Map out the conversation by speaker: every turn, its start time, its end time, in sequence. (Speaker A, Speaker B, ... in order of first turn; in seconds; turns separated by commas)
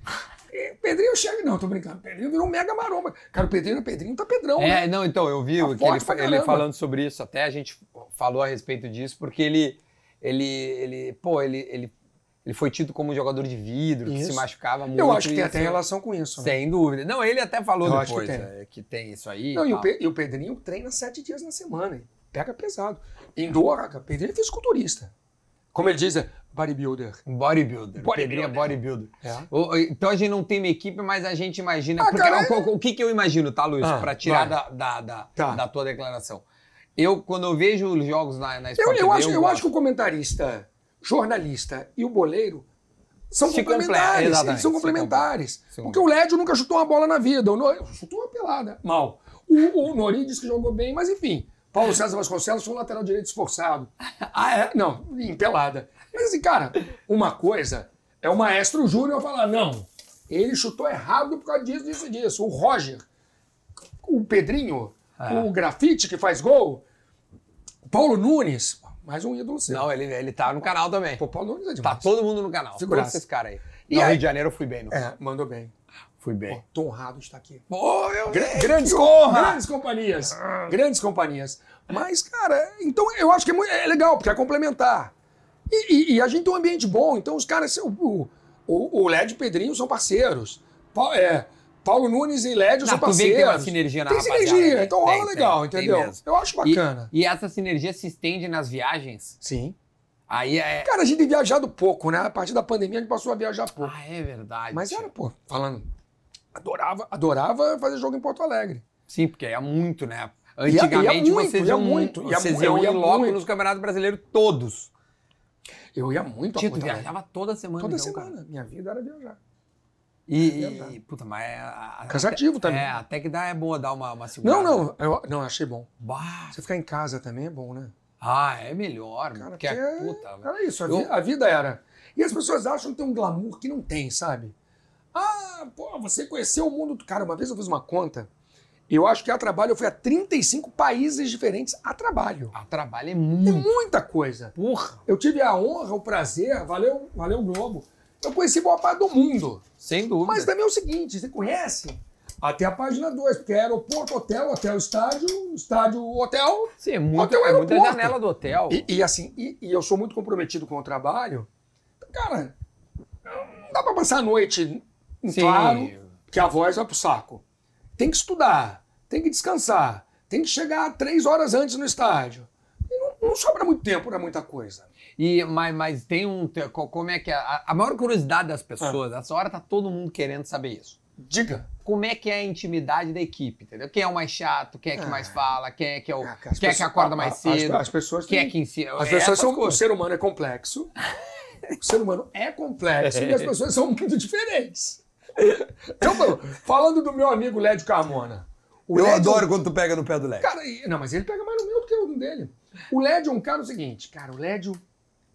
Speaker A: 0.5-4.8, Speaker B: 4.6-11.9, Speaker A: 5.6-6.7, Speaker B: 12.4-15.8, Speaker A: 14.1-16.6, Speaker B: 16.4-19.9, Speaker A: 17.8-18.5, Speaker A: 19.5-25.1, Speaker A: 25.7-27.2, Speaker B: 27.3-36.4, Speaker A: 28.0-29.5, Speaker A: 32.0-32.7, Speaker A: 33.8-34.6, Speaker A: 35.4-35.6, Speaker B: 37.0-39.6, Speaker A: 38.8-42.7, Speaker A: 43.3-53.9, Speaker B: 43.4-46.0, Speaker B: 54.2-54.7, Speaker A: 54.4-63.0, Speaker A: 64.0-66.8, Speaker B: 65.2-65.5, Speaker A: 67.8-69.9, Speaker B: 69.7-71.2, Speaker A: 71.2-72.1, Speaker B: 71.8-75.0, Speaker A: 72.8-73.2, Speaker A: 73.9-74.2, Speaker A: 74.9-75.7, Speaker B: 76.2-76.6, Speaker A: 76.5-77.7, Speaker B: 77.7-79.6, Speaker A: 78.3-85.1, Speaker A: 85.7-97.1, Speaker B: 92.8-99.4, Speaker A: 99.4-99.8, Speaker B: 100.3-100.9, Speaker A: 100.8-104.0, Speaker B: 103.8-105.1, Speaker A: 104.7-105.9, Speaker A: 106.5-108.8, Speaker B: 109.1-114.9, Speaker A: 110.7-113.4, Speaker A: 115.9-117.1, Speaker B: 116.6-118.3, Speaker A: 117.8-119.4, Speaker B: 120.3-124.9, Speaker A: 120.4-121.0, Speaker A: 122.1-123.0, Speaker A: 124.4-125.9, Speaker B: 126.0-126.6, Speaker A: 126.5-127.9, Speaker B: 128.2-131.1, Speaker A: 129.4-134.6, Speaker A: 135.1-138.3, Speaker A: 138.9-142.6, Speaker B: 142.5-143.7, Speaker A: 143.4-144.5, Speaker B: 144.6-145.0, Speaker A: 145.1-149.7, Speaker B: 149.8-150.5, Speaker A: 150.2-158.2, Speaker B: 156.8-158.9, Speaker A: 158.7-161.5, Speaker A: 162.0-162.6, Speaker A: 163.2-167.4, Speaker B: 165.3-166.1, Speaker A: 168.0-174.9, Speaker B: 175.2-181.0, Speaker A: 181.2-181.7, Speaker B: 181.8-189.8, Speaker A: 184.9-185.4, Speaker A: 186.2-190.9, Speaker A: 191.8-199.5, Speaker B: 193.0-193.5, Speaker B: 198.9-200.5, Speaker A: 200.4-204.8